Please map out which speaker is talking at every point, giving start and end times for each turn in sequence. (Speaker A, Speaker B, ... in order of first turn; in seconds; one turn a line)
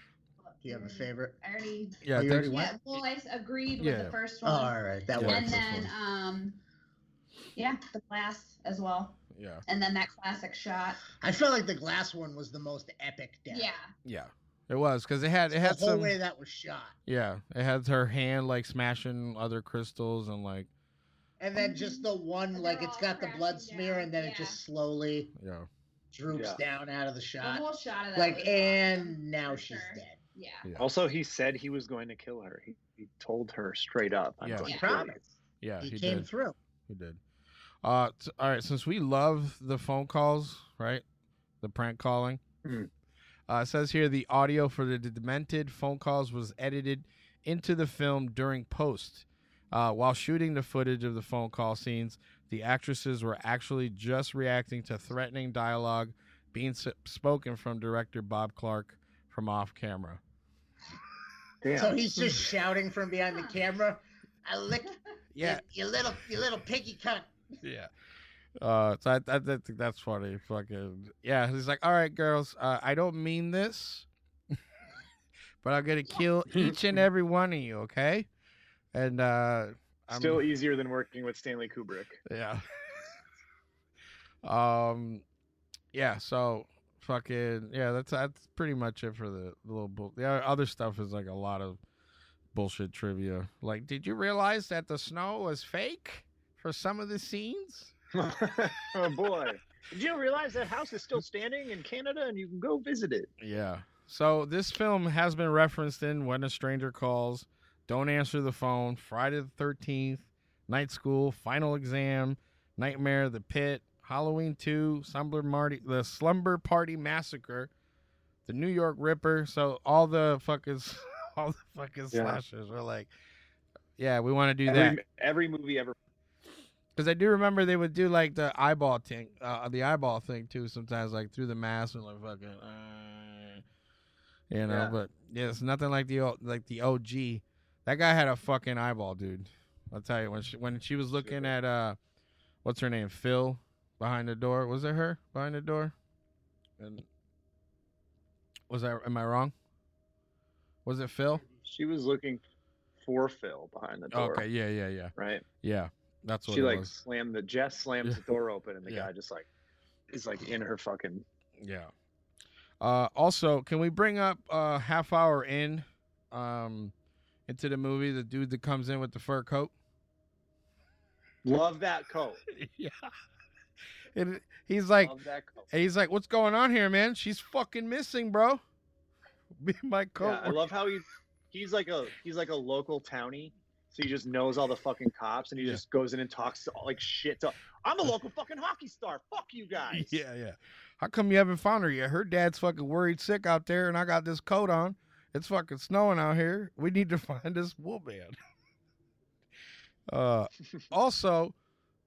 Speaker A: 0.4-6.6
Speaker B: 0.7-1.3
Speaker C: 2.0-2.5
Speaker B: 2.1-3.0
Speaker C: 3.8-4.1
Speaker B: 4.4-5.9
Speaker C: 5.2-5.9
Speaker A: 7.6-9.2
Speaker C: 9.3-9.6
Speaker A: 9.7-11.0
Speaker B: 11.2-13.7
Speaker A: 13.5-13.9
Speaker C: 14.1-16.1
Speaker B: 15.5-16.9
Speaker C: 17.1-20.7
Speaker B: 21.4-25.3
Speaker A: 21.6-24.6
Speaker C: 25.4-25.7
Speaker B: 26.1-27.6
Speaker D: 26.3-26.6
Speaker A: 27.4-30.7
Speaker B: 28.1-30.2
Speaker D: 30.8-35.2
Speaker C: 34.4-34.7
Speaker B: 34.6-35.3
Speaker A: 34.6-34.9
Speaker C: 35.6-36.3
Speaker B: 35.8-36.6
Speaker C: 36.9-37.2
Speaker C: 37.8-41.0
Speaker C: 41.6-42.4
Speaker C: 43.5-60.2
Speaker D: 61.6-62.0
Speaker B: 61.8-67.3
Speaker C: 65.3-65.6
Speaker C: 67.6-67.9
Speaker C: 68.6-74.1
Speaker C: 75.6-78.3
Speaker D: 76.5-77.0
Speaker C: 78.9-80.4
Speaker D: 80.1-82.2
Speaker C: 82.3-82.6
Speaker C: 84.4-85.2
Speaker C: 85.9-91.8
Speaker C: 92.5-97.9
Speaker D: 98.2-103.3
Speaker C: 103.4-117.7
Speaker C: 118.5-123.1
Speaker D: 122.1-122.4
Speaker C: 124.0-125.0
Speaker D: 124.7-126.0
Speaker C: 127.0-133.6
Speaker C: 134.5-142.0
Speaker D: 134.7-134.9
Speaker D: 141.2-141.5
Speaker C: 142.6-145.9
Speaker C: 146.8-147.1
Speaker C: 148.7-149.5
Speaker C: 150.8-151.4
Speaker D: 151.7-152.4
Speaker D: 153.0-154.4
Speaker C: 154.1-156.9
Speaker D: 155.2-155.5
Speaker D: 156.5-159.5
Speaker D: 160.1-161.2
Speaker C: 161.6-161.9
Speaker C: 162.8-166.9
Speaker C: 167.5-169.7
Speaker D: 171.4-172.4
Speaker C: 172.5-173.1
Speaker C: 174.2-175.1
Speaker D: 175.0-175.7
Speaker C: 175.7-178.6
Speaker C: 179.6-180.6
Speaker D: 180.2-190.2
Speaker C: 189.9-198.4
Speaker C: 200.1-201.5